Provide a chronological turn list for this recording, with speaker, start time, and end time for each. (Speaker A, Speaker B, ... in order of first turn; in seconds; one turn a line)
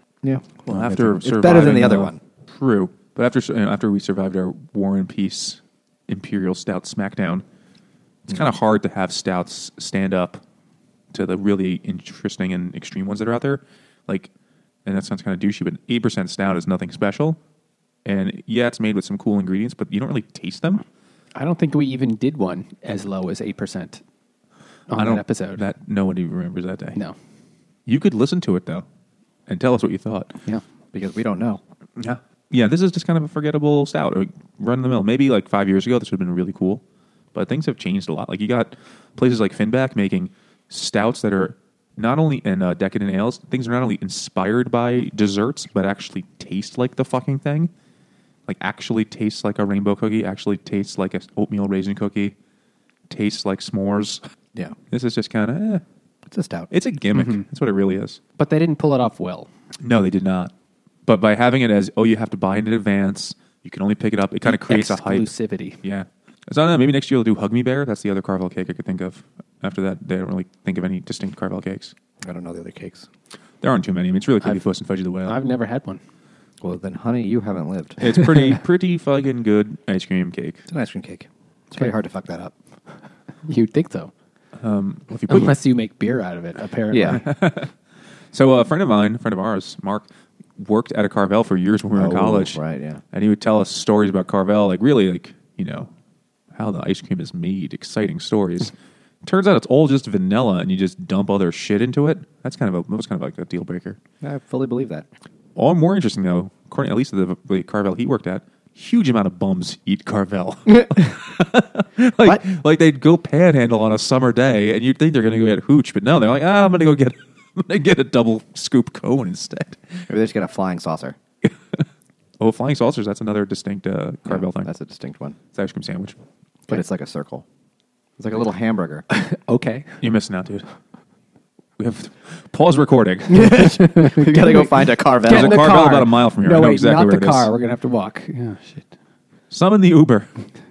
Speaker A: 0.2-2.2
Speaker B: 0.7-7.4
Speaker B: 8.3-10.4
Speaker B: 11.1-14.3
Speaker B: 14.9-17.4
Speaker B: 18.1-20.9
Speaker C: 21.4-24.0
Speaker C: 24.9-25.6
Speaker B: 24.9-27.0
Speaker B: 27.9-28.9
Speaker B: 29.5-30.3
Speaker A: 30.9-31.6
Speaker B: 32.0-36.8
Speaker B: 37.3-47.7
Speaker B: 48.5-52.4
Speaker B: 53.1-54.2
Speaker B: 54.9-55.8
Speaker A: 56.3-56.7
Speaker B: 56.7-58.2
Speaker C: 57.1-57.4
Speaker C: 58.4-59.5
Speaker B: 59.8-60.5
Speaker B: 61.1-65.3
Speaker C: 64.5-65.8
Speaker B: 65.8-71.9
Speaker A: 72.2-73.1
Speaker B: 73.6-75.4
Speaker C: 75.2-76.0
Speaker A: 76.6-78.0
Speaker B: 78.0-80.6
Speaker A: 80.7-82.5
Speaker C: 83.5-84.1
Speaker B: 84.6-85.6
Speaker C: 85.3-87.2
Speaker A: 86.9-87.2
Speaker B: 87.1-87.7
Speaker B: 88.3-90.1
Speaker B: 90.6-92.6
Speaker A: 92.0-93.0
Speaker B: 93.1-95.9
Speaker B: 96.5-98.7
Speaker B: 99.2-104.0
Speaker A: 104.2-105.1
Speaker B: 105.6-120.0
Speaker A: 120.1-121.2
Speaker B: 122.4-124.7
Speaker A: 124.3-125.4
Speaker B: 125.5-126.2
Speaker A: 126.7-127.5
Speaker A: 128.2-129.1
Speaker C: 129.1-129.9
Speaker B: 130.0-130.7
Speaker B: 131.8-133.8
Speaker A: 133.3-135.7
Speaker C: 133.6-138.9
Speaker B: 135.2-137.5
Speaker B: 139.5-140.4